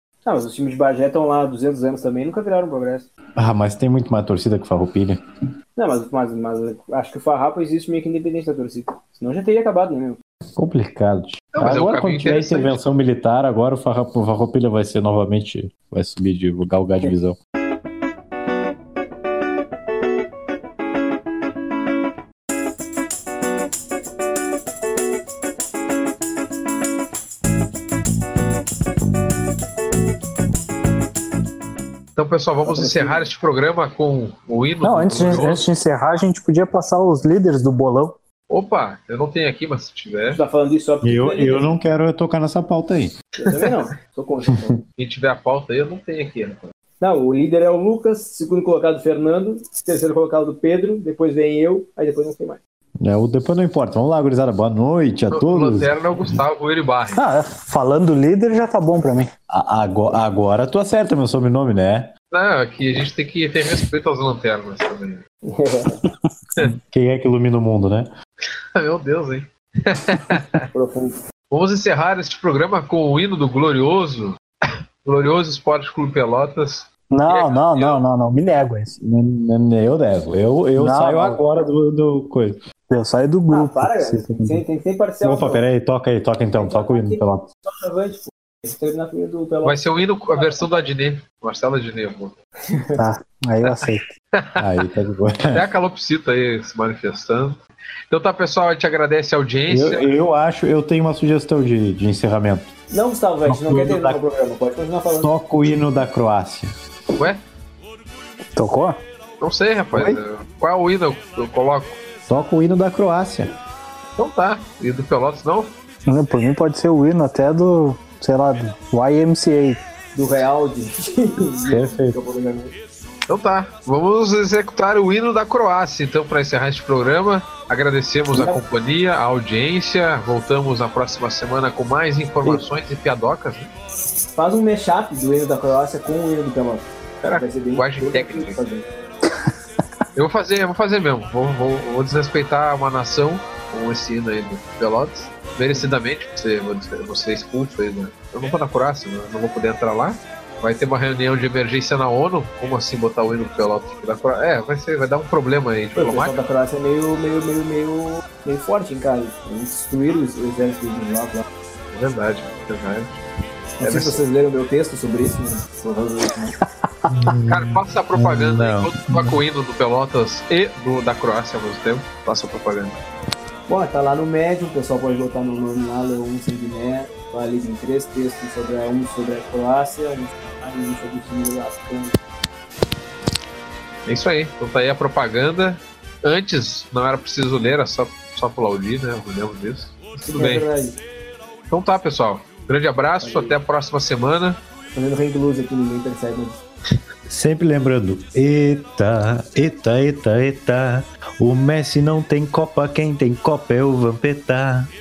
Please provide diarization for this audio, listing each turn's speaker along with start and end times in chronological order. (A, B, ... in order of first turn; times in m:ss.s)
0:00.2-0:03.1 A
0:03.4-0:05.2 B
0:05.8-0:10.2 A
0:10.6-0:17.4 B
0:11.5-0:12.8 C
0:32.2-0:35.6 C
0:32.6-0:33.3 A
0:34.8-0:38.2 D
0:38.5-0:40.4 C
0:40.3-0:41.7 A
0:41.0-0:43.1 B
0:43.4-0:44.8 A
0:44.5-0:44.8 B
0:45.0-0:46.7 C
0:47.0-0:52.6 A
0:53.0-0:56.3 B
0:55.3-0:57.2 C
0:57.1-0:59.3 D
0:59.5-1:02.1 B
1:02.3-1:05.2 C
1:05.4-1:06.0 A
1:06.6-1:08.1 B
1:08.7-1:10.6 C
1:10.7-1:11.2 A
1:11.5-1:14.4 C
1:15.0-1:18.0 C
1:17.1-1:18.9 D
1:19.0-1:22.6 B
1:20.7-1:21.4 D
1:22.9-1:24.6 D
1:23.5-1:25.6 A
1:25.2-1:27.4 B
1:26.6-1:29.8 A
1:29.6-1:32.4 C
1:30.3-1:30.7 A
1:32.7-1:33.0 A
1:33.0-1:34.1 D
1:34.6-1:35.6 B
1:35.5-1:40.1 C
1:39.7-1:42.7 B
1:42.9-1:45.3 A
1:43.4-1:44.2 B
1:45.2-1:46.7 B
1:48.5-1:49.0 D
1:49.4-1:52.0 C
1:49.9-1:50.2 B
1:52.3-1:53.6 B
1:54.2-1:55.7 C
1:56.0-1:59.8 D
2:00.1-2:02.7 A
2:01.7-2:02.2 B
2:03.3-2:13.7 C
2:08.3-2:08.6 A
2:14.4-2:18.8 A
2:17.2-2:18.6 C
2:20.1-2:36.3 C
2:36.0-2:41.4 A
2:41.9-2:43.2 C
2:43.8-2:46.6 A
2:43.8-2:44.2 C
2:47.1-2:49.4 B
2:47.5-2:53.0 C
2:53.7-3:02.2 A
3:04.0-3:10.6 C
3:10.3-3:11.0 A
3:11.7-3:14.6 C
3:13.2-3:13.5 A
3:14.9-3:16.6 A
3:17.3-3:24.9 B